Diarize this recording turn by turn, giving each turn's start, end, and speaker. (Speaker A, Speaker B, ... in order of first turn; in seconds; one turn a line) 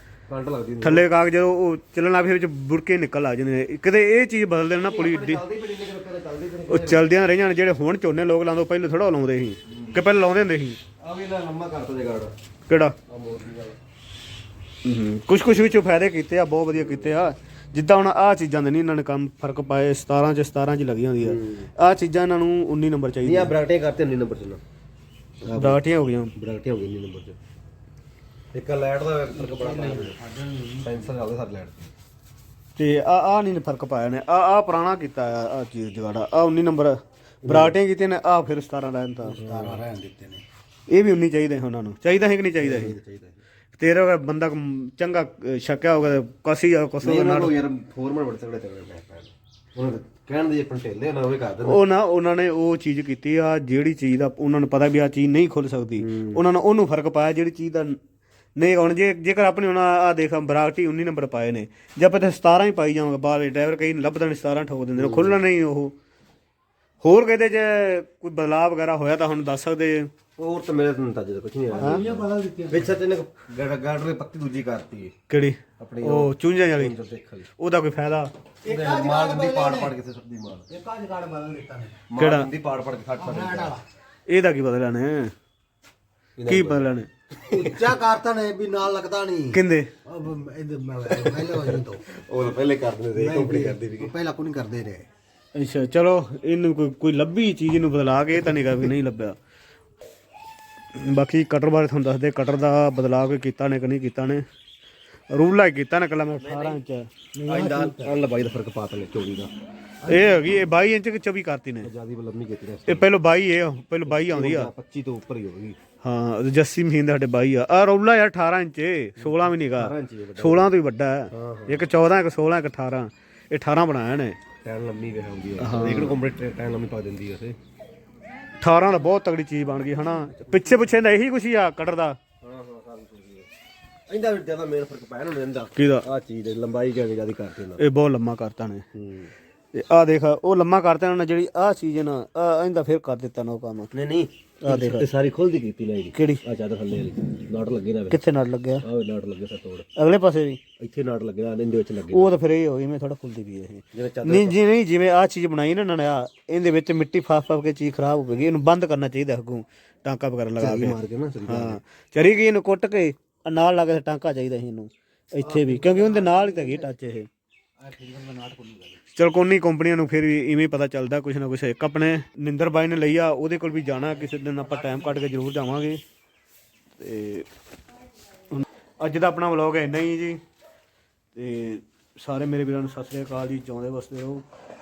Speaker A: 0.3-1.1
Speaker B: 0.8-5.4
Speaker A: 4.8-7.0
Speaker B: 6.7-10.8
Speaker A: 9.7-10.0
Speaker A: 11.0-12.3
Speaker B: 12.7-12.9
Speaker A: 13.1-13.8
Speaker B: 14.8-23.5
Speaker A: 16.7-17.2
Speaker A: 21.2-21.7
Speaker A: 23.2-24.6
Speaker A: 25.4-25.8
Speaker B: 25.5-26.3
Speaker A: 26.4-27.4
Speaker A: 28.5-30.2
Speaker C: 29.4-31.0
Speaker A: 30.8-31.9
Speaker B: 32.8-39.4
Speaker A: 37.5-37.7
Speaker C: 39.3-40.4
Speaker A: 39.4-39.8
Speaker B: 40.9-42.9
Speaker A: 42.6-43.4
Speaker B: 43.8-47.5
Speaker A: 47.0-51.8
Speaker B: 51.6-58.0
Speaker A: 56.0-56.4
Speaker B: 58.6-65.9
Speaker A: 65.0-65.4
Speaker B: 67.0-70.1
Speaker A: 70.4-75.1
Speaker C: 71.7-72.9
Speaker B: 75.3-76.9
Speaker A: 75.8-77.5
Speaker B: 77.6-78.3
Speaker C: 78.6-79.9
Speaker A: 78.6-80.7
Speaker C: 80.7-82.0
Speaker A: 82.1-83.8
Speaker B: 82.2-82.5
Speaker C: 83.2-83.8
Speaker B: 84.3-85.3
Speaker A: 86.3-86.9
Speaker B: 86.5-87.1
Speaker A: 87.4-87.8
Speaker C: 87.4-92.0
Speaker B: 89.5-89.9
Speaker A: 91.0-94.1
Speaker C: 93.2-95.1
Speaker B: 95.5-99.4
Speaker B: 100.9-104.4
Speaker B: 105.3-107.1
Speaker A: 106.4-106.8
Speaker C: 107.3-108.2
Speaker A: 107.5-109.5
Speaker C: 110.0-110.4
Speaker B: 110.0-111.9
Speaker A: 111.8-113.1
Speaker B: 112.9-114.7
Speaker A: 114.0-115.8
Speaker B: 116.0-124.4
Speaker A: 119.2-120.7
Speaker A: 121.3-121.9
Speaker A: 124.6-127.6
Speaker B: 125.6-126.2
Speaker B: 128.6-132.2
Speaker A: 132.4-133.5
Speaker A: 134.1-137.8
Speaker B: 135.7-136.1
Speaker B: 137.8-138.8
Speaker A: 138.9-139.3
Speaker B: 139.7-143.9
Speaker A: 143.9-148.2
Speaker B: 144.7-145.1
Speaker B: 146.1-146.4
Speaker B: 148.1-148.8
Speaker A: 148.8-149.9
Speaker B: 149.9-150.6
Speaker A: 150.8-152.4
Speaker B: 152.1-160.9
Speaker A: 153.9-154.6
Speaker A: 160.6-161.8
Speaker B: 161.4-167.3
Speaker C: 165.4-166.9
Speaker C: 167.8-169.0
Speaker B: 169.1-176.0
Speaker B: 177.0-177.4
Speaker B: 178.5-180.4
Speaker B: 181.3-184.4